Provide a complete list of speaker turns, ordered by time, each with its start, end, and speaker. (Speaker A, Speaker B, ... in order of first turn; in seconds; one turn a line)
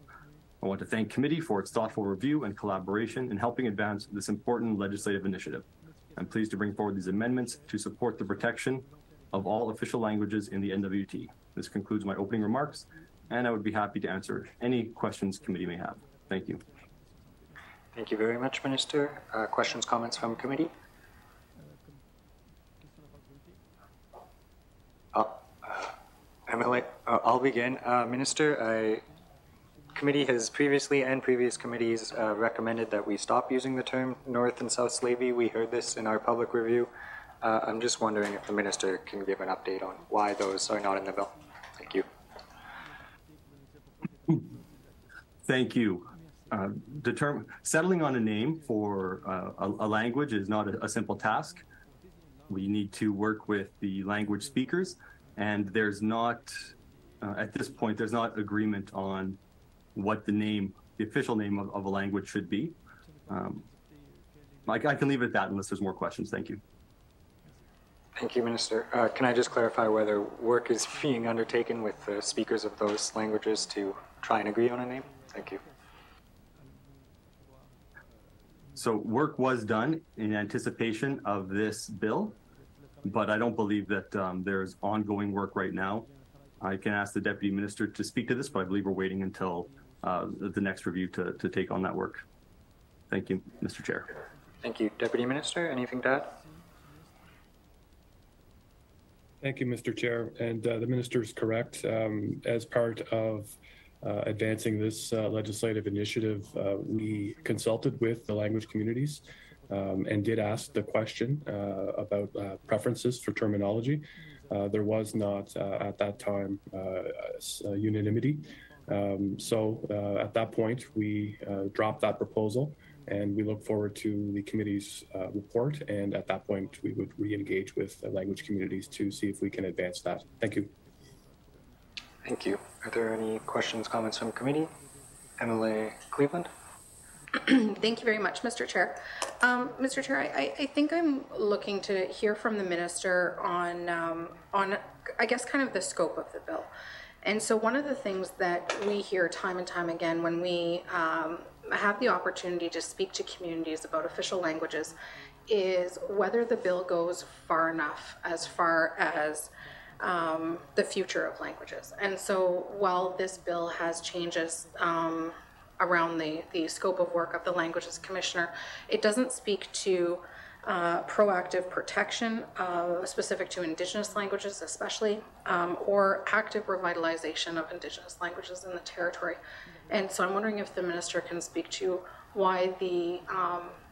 Speaker A: 0.6-16.6
Speaker B: 17.9-20.7
Speaker B: 25.1-25.9
Speaker B: 26.5-29.1
Speaker B: 29.9-36.9
Speaker B: 37.4-42.1
Speaker A: 45.5-51.6
Speaker A: 52.5-56.6
Speaker A: 57.2-59.4
Speaker A: 60.0-62.8
Speaker A: 63.3-63.6
Speaker A: 64.7-66.6
Speaker B: 68.2-75.6
Speaker A: 78.8-82.4
Speaker A: 83.0-86.1
Speaker A: 86.6-92.2
Speaker A: 93.1-94.1
Speaker B: 94.6-96.4
Speaker C: 99.4-130.7
Speaker B: 132.2-134.7
Speaker B: 135.4-136.5
Speaker D: 137.3-146.7
Speaker D: 147.2-155.0
Speaker D: 155.5-183.8